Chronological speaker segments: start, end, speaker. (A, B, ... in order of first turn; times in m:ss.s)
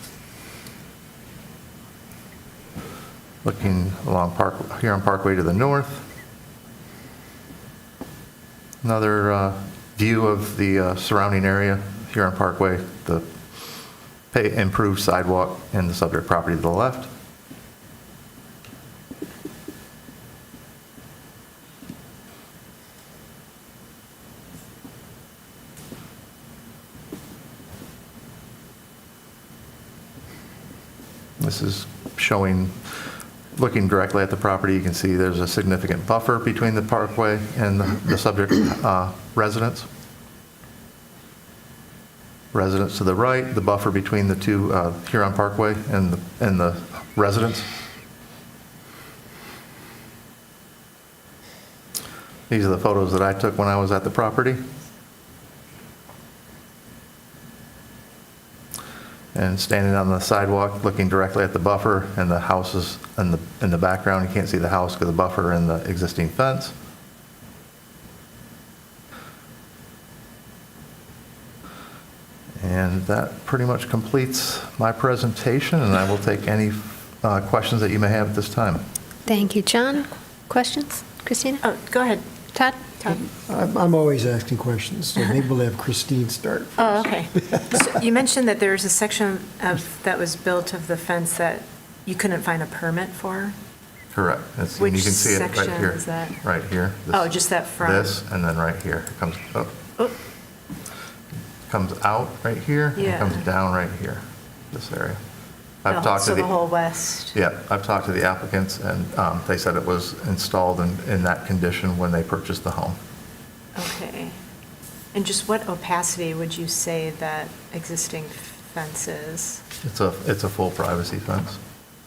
0:03.4-0:06.0 A
0:08.8-0:13.3 A
0:14.3-0:17.1 A
0:31.4-0:33.0 A
0:33.6-0:39.9 A
0:42.5-0:47.7 A
0:52.5-0:54.6 A
0:59.3-1:06.8 A
1:12.6-1:18.8 A
1:19.3-1:21.6 B
1:21.6-1:22.2 C
1:22.5-1:22.9 B
1:23.1-1:27.9 D
1:26.8-1:33.6 C
1:34.1-1:39.8 A
1:34.8-1:36.4 C
1:37.1-1:38.2 C
1:41.7-1:45.2 A
1:43.0-1:43.4 C
1:45.8-1:46.6 A
1:45.9-1:47.4 C
1:47.3-1:53.0 A
1:53.8-1:54.4 C
1:55.1-1:59.6 C
1:59.8-2:01.6 A